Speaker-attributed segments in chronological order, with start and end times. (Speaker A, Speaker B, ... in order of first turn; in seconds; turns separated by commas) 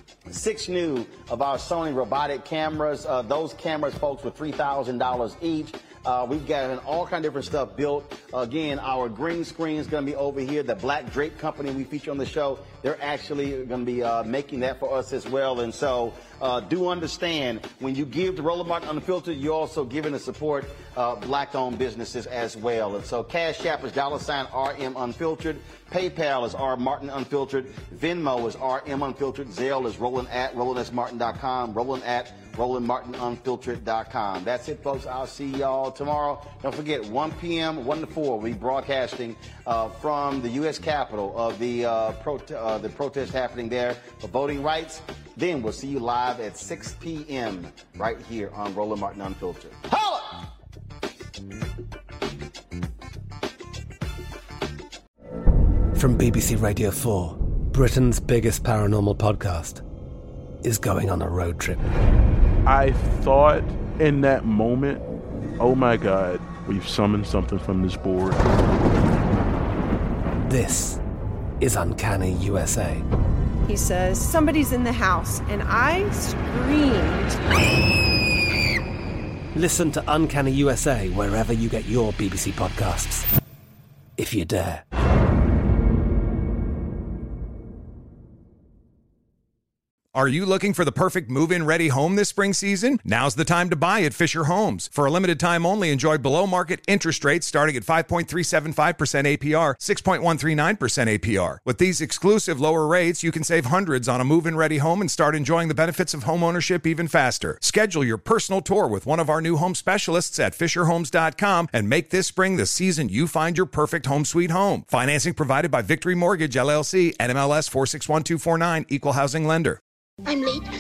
Speaker A: 0.3-50.5, Speaker B: 56.0-59.8, Speaker B: 60.6-61.8, Speaker C: 62.7-65.0, Speaker C: 65.6-68.4, Speaker B: 70.4-71.0, Speaker B: 71.6-73.0, Speaker D: 73.7-77.4, Speaker B: 79.5-83.3, Speaker B: 84.2-84.8, Speaker E: 90.2-119.8